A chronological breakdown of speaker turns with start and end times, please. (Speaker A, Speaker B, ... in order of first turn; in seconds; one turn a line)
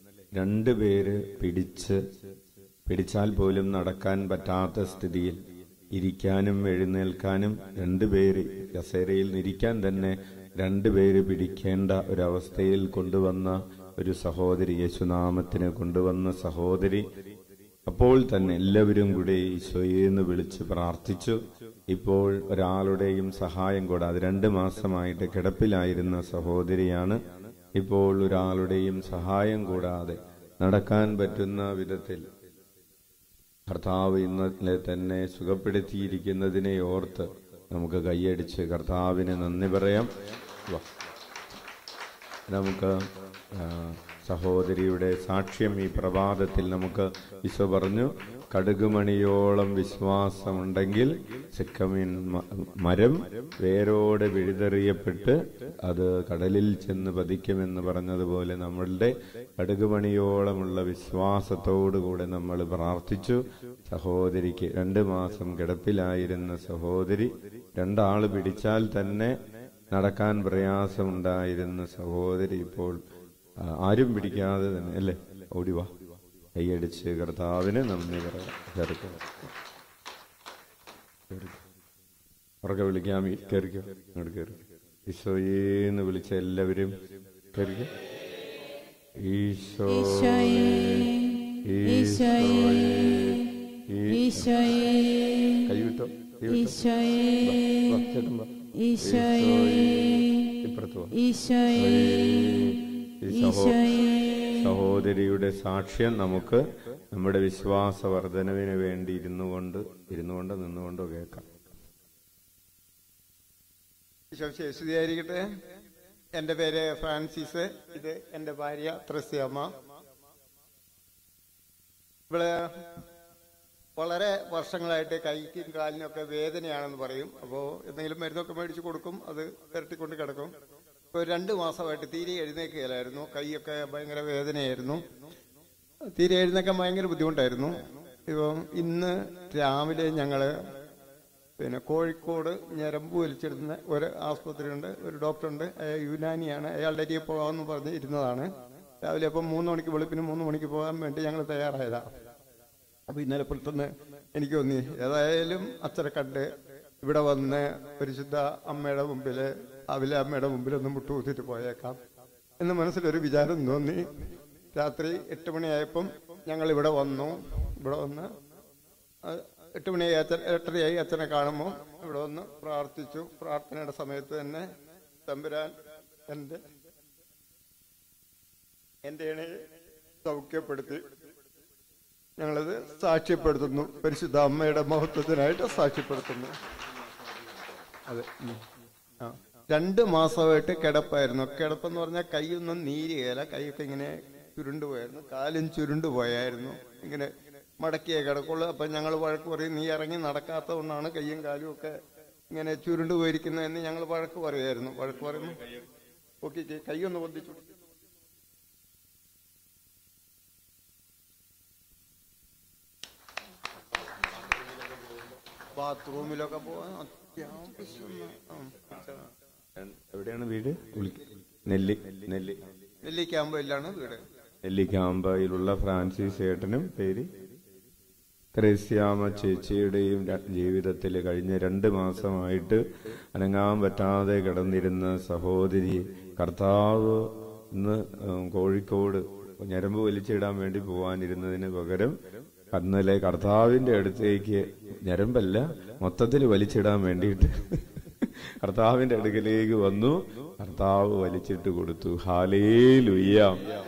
Speaker A: 0.3-2.0
Speaker A: 2.9-5.4
Speaker A: 6.0-17.1
Speaker A: 17.9-21.4
Speaker A: 21.9-27.2
Speaker A: 27.8-32.3
Speaker A: 33.7-40.1
Speaker A: 42.5-43.0
Speaker A: 43.5-69.3
Speaker A: 69.9-73.0
Speaker A: 73.6-75.9
Speaker A: 76.5-79.4
Speaker A: 81.3-81.6
Speaker A: 82.6-87.0
Speaker A: 87.5-87.9
Speaker A: 89.2-94.9
Speaker B: 89.9-93.2
Speaker B: 94.1-95.6
Speaker A: 95.7-96.8
Speaker B: 96.5-98.0
Speaker A: 97.4-101.2
Speaker B: 98.8-100.5
Speaker B: 101.2-102.4
Speaker A: 101.7-111.5
Speaker B: 103.3-104.8
Speaker C: 114.3-115.4
Speaker C: 116.4-119.7
Speaker C: 122.3-122.7
Speaker C: 124.0-130.5
Speaker C: 131.1-135.0
Speaker C: 136.2-140.5
Speaker C: 141.6-148.5
Speaker C: 149.0-152.1
Speaker C: 153.1-156.5
Speaker C: 157.0-162.0
Speaker C: 162.6-168.3
Speaker C: 169.3-174.7
Speaker C: 175.3-175.7
Speaker C: 176.3-176.6
Speaker C: 179.1-179.6
Speaker C: 180.2-181.1
Speaker C: 182.4-186.5
Speaker C: 188.1-188.6
Speaker C: 189.2-202.0
Speaker C: 202.5-205.6
Speaker C: 206.4-207.7
Speaker C: 215.8-219.2
Speaker A: 219.8-222.6
Speaker C: 223.1-224.2
Speaker A: 224.7-227.3
Speaker A: 228.5-232.8
Speaker A: 233.3-242.2
Speaker A: 242.7-253.6